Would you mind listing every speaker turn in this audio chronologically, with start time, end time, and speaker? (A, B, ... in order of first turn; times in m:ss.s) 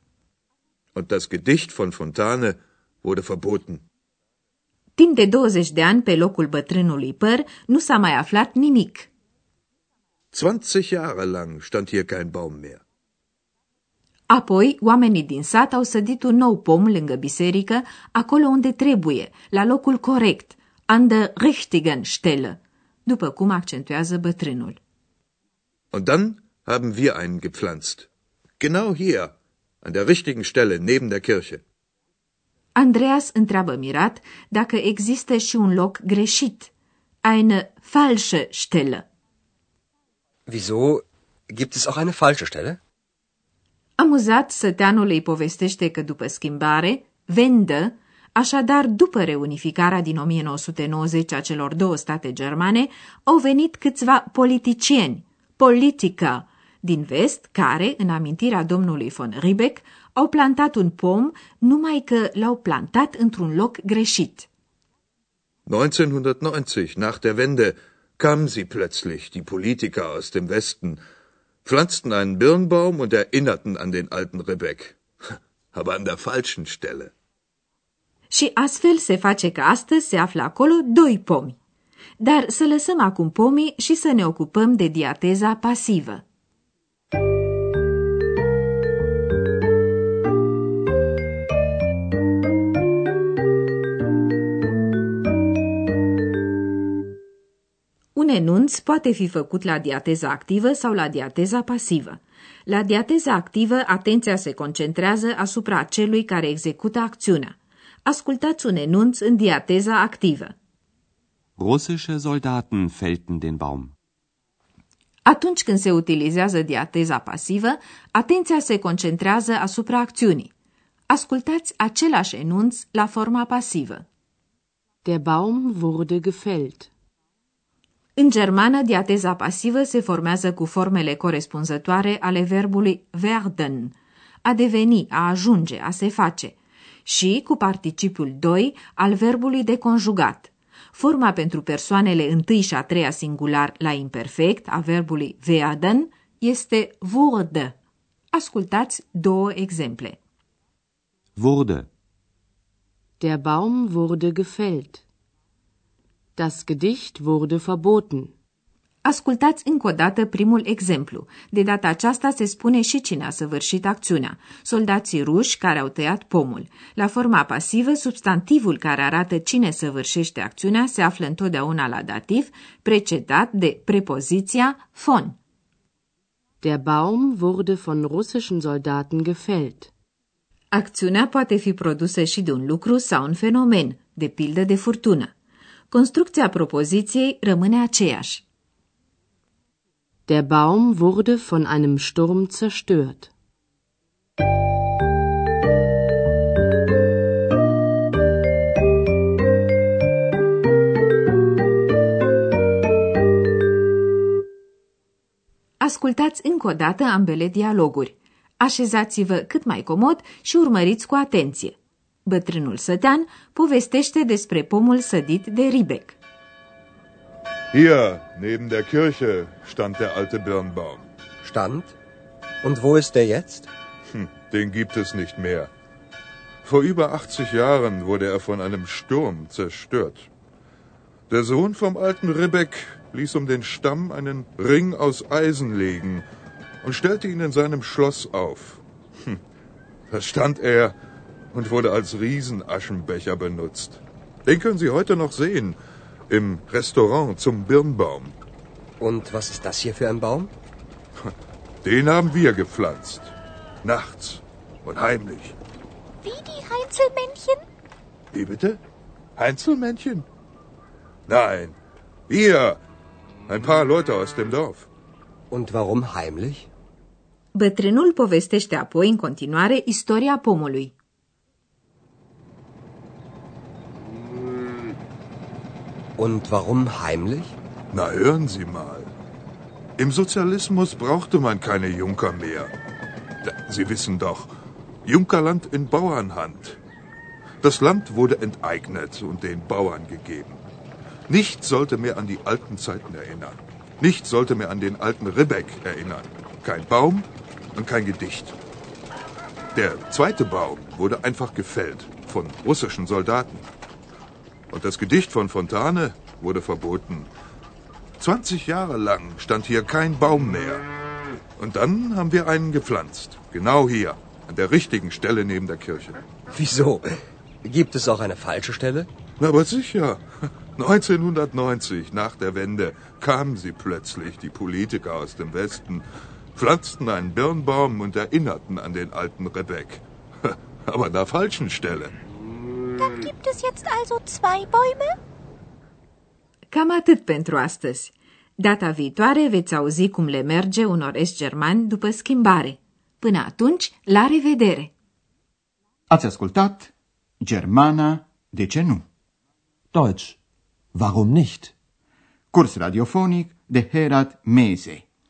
0:01.0-0:03.8 A
0:05.0-0:09.1 B
0:10.3-0:12.8 A
0:14.3-0:24.8 B
0:25.9-0:28.1 A
0:28.6-0:31.6 A
0:32.8-0:36.7 B
0:37.2-0:39.0 B
0:40.5-0:42.8 C
0:44.0-1:04.5 B
1:05.7-1:11.0 A
1:11.6-1:15.0 A
1:15.7-1:17.1 A
1:18.3-1:21.6 B
1:22.2-1:26.2 B
1:38.2-1:50.5 B
1:51.6-1:53.9 D
1:55.2-2:00.5 B
2:01.1-2:04.0 B
2:05.0-2:06.9 E
2:08.2-2:27.8 B
2:28.3-2:30.2 B
2:31.4-2:31.9 D
2:33.2-2:35.0 E
2:36.4-2:38.3 E
2:39.0-2:55.4 B
2:56.6-2:59.9 E
3:00.7-3:05.3 B
3:05.9-3:08.4 B
3:10.3-3:13.3 E
3:25.8-3:36.2 B
3:37.7-3:41.1 A
3:41.4-3:42.0 C
3:42.6-3:43.7 C
3:44.1-3:45.7 A
3:46.6-3:50.3 A
3:51.3-3:56.2 A
3:56.8-3:59.4 A
4:00.1-4:01.0 A
4:01.5-4:05.8 A
4:06.3-4:08.4 A
4:09.0-4:10.5 C
4:11.8-4:15.6 A
4:16.2-4:17.6 F
4:18.3-4:18.8 A
4:19.4-4:20.3 A
4:21.3-4:21.8 A
4:22.3-4:22.8 A
4:23.5-4:24.9 A
4:25.5-4:26.7 C
4:27.5-4:30.9 B
4:36.2-4:37.5 C
4:37.9-4:39.1 A
4:40.0-4:42.7 A
4:43.4-4:44.5 A
4:45.0-4:46.8 A
4:47.6-4:50.7 A
4:51.3-4:58.6 A
4:59.8-5:03.7 A
5:04.7-5:07.3 A
5:08.2-5:10.8 A
5:11.6-5:16.2 A
5:16.5-5:17.1 C
5:17.6-5:19.1 C
5:19.4-5:20.2 A
5:20.8-5:32.1 A
5:33.0-5:35.2 F
5:36.7-5:44.9 B
5:46.1-5:49.0 G
5:49.9-5:50.4 D
5:50.9-5:51.7 D
5:52.5-5:55.0 G